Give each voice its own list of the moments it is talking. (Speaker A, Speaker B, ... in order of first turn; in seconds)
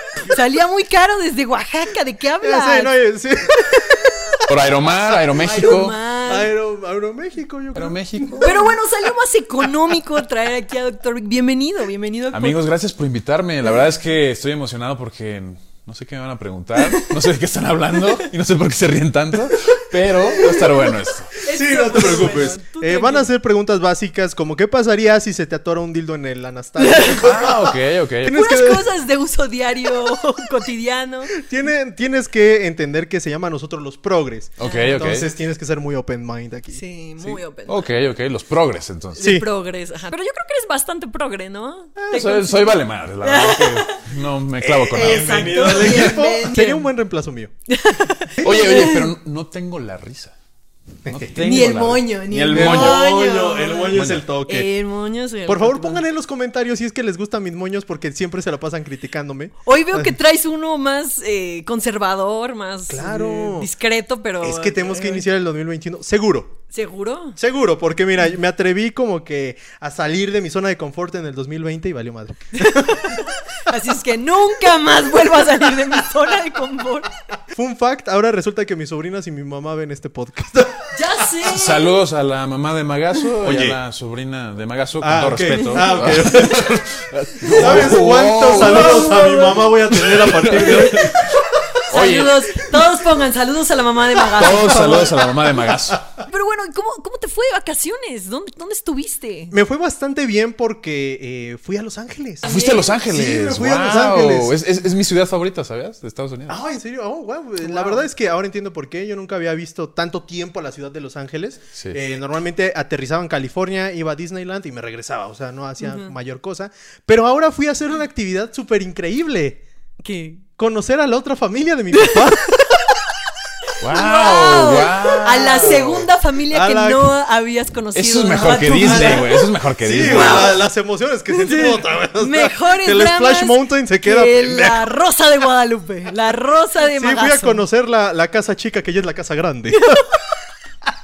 Speaker A: 0.2-3.0, 3.6-4.2, 5.3-6.5, 8.4-12.6, 20.4-23.3, 26.8-27.3, 28.3-31.4, 34.6-35.2, 36.7-37.9, 39.2-44.0, 44.9-46.9, 47.7-49.1, 51.4-56.0, 59.6-65.2, 66.7-67.4, 72.5-77.1, 80.9-81.9, 85.5-86.5, 87.4-89.7, 90.6-91.1, 91.8-95.1, 96.2-99.5, 102.4-102.9, 107.6-108.0, 115.8-116.1, 120.0-120.4, 121.9-122.8, 123.7-130.6, 131.3-137.6, 139.7-140.2
Speaker B: 2.4-4.5, 5.3-8.7, 21.5-28.9, 31.3-37.4, 39.2-39.5, 44.6-47.5, 48.4-48.8, 51.0-51.6, 52.5-54.7, 55.5-60.2, 62.9-63.7, 64.4-66.6, 67.4-73.3, 77.5-80.9, 83.4-83.8, 85.0-86.8, 87.5-91.4, 94.2-96.0, 99.5-104.5, 106.5-119.6, 120.6-122.6, 125.4-127.1, 128.8-134.9, 136.8-140.0
Speaker C: 4.5-6.0, 7.7-8.6, 12.3-21.4, 27.2-28.4, 34.6-35.3, 37.7-39.4, 42.1-46.2, 48.4-50.3, 51.0-53.0, 53.9-54.3, 81.5-92.6, 94.3-96.0, 102.5-106.6, 123.8-126.1, 127.9-130.6